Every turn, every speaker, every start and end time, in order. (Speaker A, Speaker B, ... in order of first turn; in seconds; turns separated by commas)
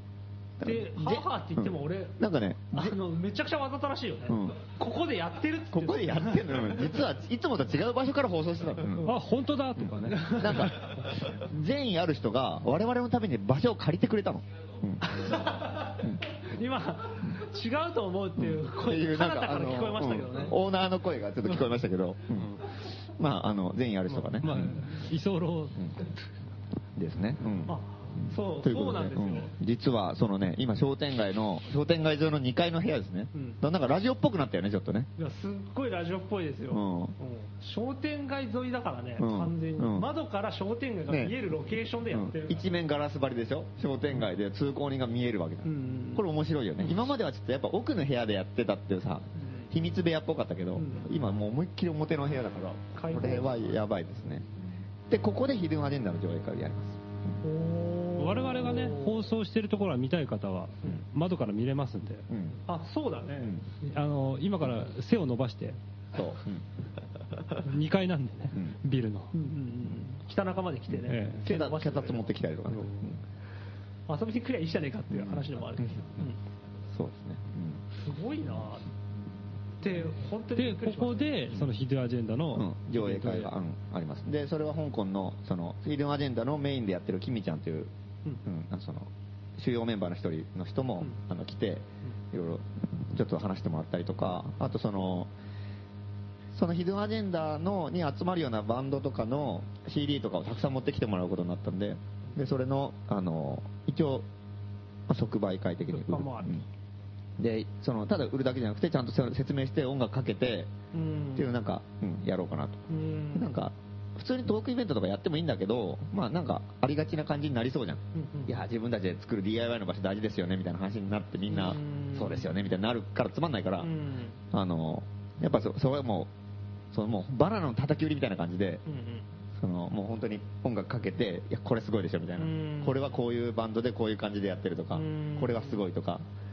Speaker A: 0.6-3.0, Speaker B: 0.6-2.2, Speaker B: 2.7-6.9, Speaker A: 4.3-4.6, Speaker A: 5.7-9.2, Speaker C: 9.0-10.9, Speaker A: 9.8-15.4, Speaker B: 10.1-10.8, Speaker B: 15.0-20.6, Speaker A: 18.4-24.8, Speaker C: 22.3-22.6, Speaker C: 24.4-25.9, Speaker A: 26.9-35.1, Speaker B: 27.7-29.5, Speaker B: 33.3-33.6, Speaker B: 35.2-42.7, Speaker A: 36.7-37.1, Speaker A: 39.2-40.1, Speaker A: 41.1-41.3, Speaker A: 42.1-57.4, Speaker B: 45.6-46.2, Speaker B: 49.4-49.7, Speaker B: 50.8-51.1, Speaker B: 52.9-53.7, Speaker B: 57.4-59.2, Speaker C: 58.1-62.3, Speaker A: 62.3-62.6, Speaker B: 62.7-63.6, Speaker A: 63.4-63.6, Speaker C: 63.8-65.8, Speaker A: 66.1-66.6, Speaker C: 67.5-69.3, Speaker B: 69.3-72.3, Speaker C: 71.1-71.4, Speaker A: 71.4-73.2, Speaker C: 72.7-73.2, Speaker B: 74.1-76.4, Speaker A: 75.1-76.2, Speaker A: 76.9-77.8, Speaker B: 77.9-78.9, Speaker B: 79.8-81.4, Speaker C: 80.5-83.5, Speaker A: 82.5-87.9, Speaker A: 88.4-95.3, Speaker A: 96.5-104.3, Speaker A: 105.1-106.6, Speaker B: 105.9-106.6, Speaker A: 107.4-110.7, Speaker B: 110.9-111.5, Speaker A: 111.3-123.9, Speaker B: 112.9-113.5, Speaker B: 118.1-118.6, Speaker B: 121.5-122.5, Speaker B: 123.8-124.4, Speaker A: 124.5-126.3, Speaker A: 126.9-128.8, Speaker B: 128.8-129.2, Speaker A: 129.5-136.2, Speaker B: 132.4-133.0, Speaker B: 134.9-135.8